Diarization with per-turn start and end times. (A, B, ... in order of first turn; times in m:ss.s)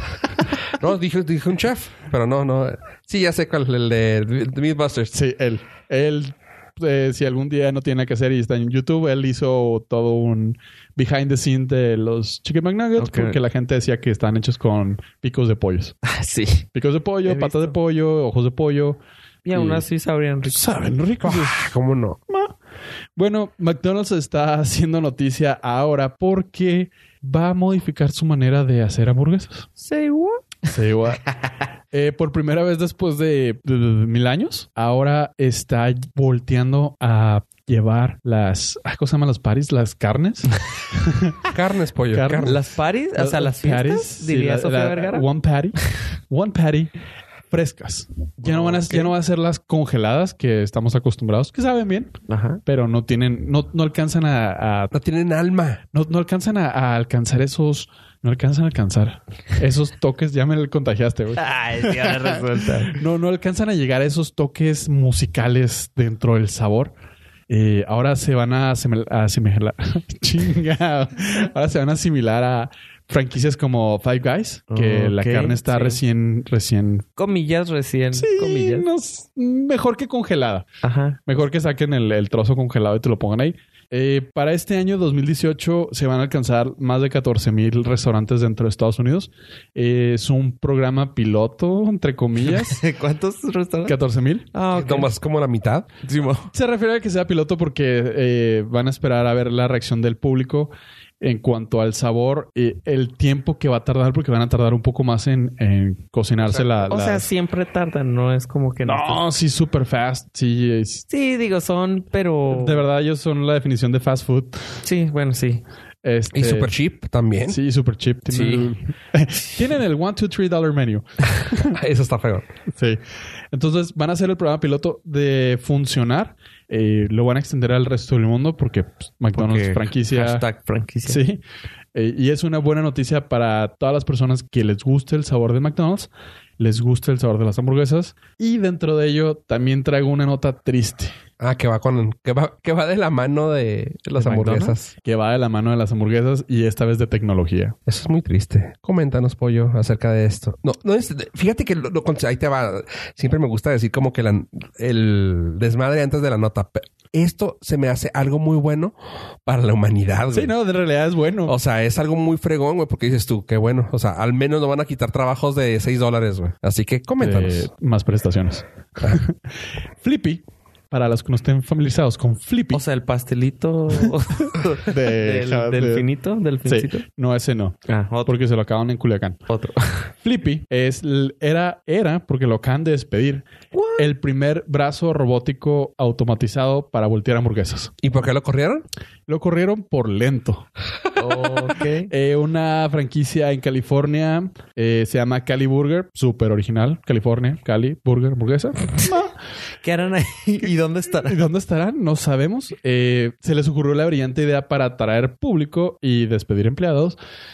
0:00.7-0:05.2 A
0:05.1-0:16.0 B
0:13.0-0:13.4 C
0:16.0-0:16.6 C
0:16.7-0:19.0 B
0:17.2-0:17.8 C
0:19.4-0:20.6 C
0:19.5-0:19.9 B
0:20.5-0:21.7 B
0:21.2-0:22.2 A
0:22.3-0:22.5 B
0:23.2-0:29.7 B
0:29.8-0:30.7 C
0:30.7-0:31.2 B
0:31.9-0:41.4 B
0:41.5-0:42.6 A
0:42.1-0:42.6 B
0:42.4-0:45.3 C
0:43.2-0:46.9 B
0:47.5-0:52.1 B
0:48.5-0:49.1 C
0:52.3-0:52.6 C
0:52.7-0:54.9 B
0:54.9-0:55.8 A
0:55.9-1:06.9 B
1:01.4-1:03.0 C
1:07.5-1:17.1 B
1:14.7-1:16.0 C
1:17.2-1:18.9 C
1:18.1-1:20.7 B
1:20.8-1:21.2 C
1:21.3-1:32.8 B
1:32.5-1:34.0 C
1:33.9-1:34.5 B
1:34.5-1:35.1 C
1:34.7-1:35.9 A
1:36.0-1:36.5 C
1:36.5-1:47.3 B
1:46.5-1:46.7 A
1:46.9-1:49.2 C
1:48.8-1:51.1 B
1:51.1-1:52.8 C
1:52.5-1:54.8 B
1:54.8-1:55.6 C
1:56.0-1:56.7 B
1:56.3-1:57.6 A
1:57.5-2:01.8 B
1:58.3-1:58.7 C
2:01.7-2:02.5 A
2:02.7-2:03.0 B
2:03.5-2:10.4 B
2:09.3-2:11.2 C
2:11.1-2:11.4 B
2:11.9-2:21.2 B
2:21.4-2:24.9 A
2:24.2-2:24.8 C
2:25.0-2:27.8 B
2:27.9-2:39.0 A
2:39.5-2:40.5 A
2:40.3-2:41.6 B
2:41.4-2:47.7 A
2:47.2-2:52.8 B
2:52.7-2:57.0 C
2:54.8-2:56.1 B
2:56.6-2:59.4 B
2:57.9-2:58.4 C
2:59.5-3:00.1 C
3:00.2-3:07.9 B
3:03.7-3:04.1 C
3:08.0-3:08.8 A
3:09.3-3:10.7 B
3:11.2-3:12.1 C
3:12.1-3:19.3 B
3:19.8-3:21.4 C
3:21.2-3:27.2 B